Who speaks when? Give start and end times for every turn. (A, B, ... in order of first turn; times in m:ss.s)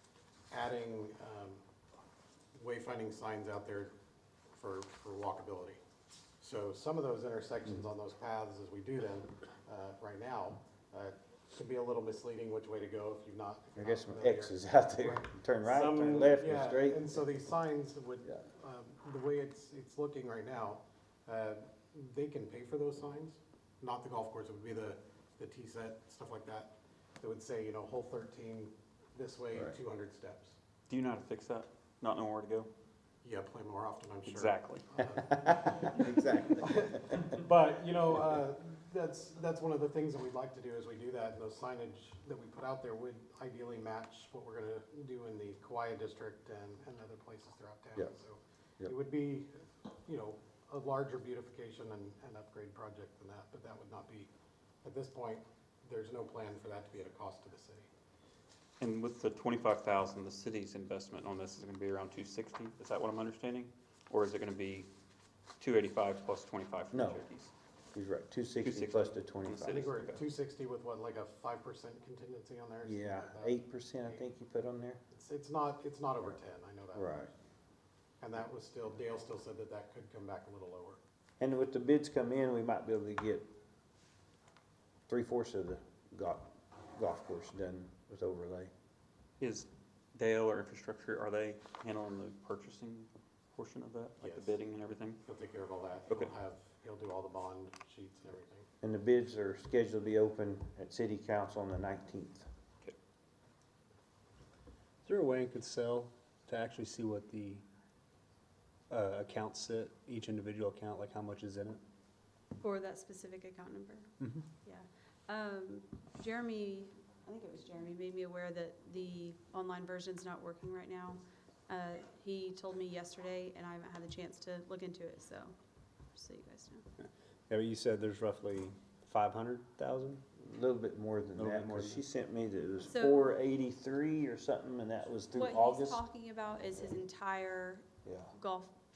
0:00.5-0:01.6 A
0:02.5-0:03.9 A
0:04.5-0:05.8 A
0:06.4-0:30.6 A
0:13.8-0:17.2 B
0:30.9-0:32.7 C
0:33.2-0:54.3 A
0:34.3-0:34.9 C
0:35.2-0:37.3 B
0:54.8-0:57.9 A
0:58.8-1:04.9 C
1:05.6-1:07.5 C
1:06.9-1:07.2 B
1:07.9-1:09.9 B
1:08.6-1:10.2 C
1:09.5-1:14.2 A
1:12.8-1:15.0 B
1:15.1-1:17.3 A
1:16.9-1:17.3 B
1:18.2-1:21.0 A
1:21.4-1:23.5 B
1:25.1-1:28.7 B
1:29.4-1:35.2 C
1:34.2-1:34.6 A
1:35.2-1:38.7 A
1:36.1-1:36.3 C
1:38.8-1:42.5 B
1:45.0-1:47.6 D
1:48.9-1:51.8 D
1:52.6-1:54.1 E
1:54.2-1:54.5 D
1:54.6-2:05.5 E
2:06.1-2:06.8 E
2:07.5-2:10.2 D
2:10.4-2:16.0 B
2:11.4-2:12.0 D
2:12.9-2:13.3 E
2:15.3-2:18.7 E
2:18.0-2:18.3 B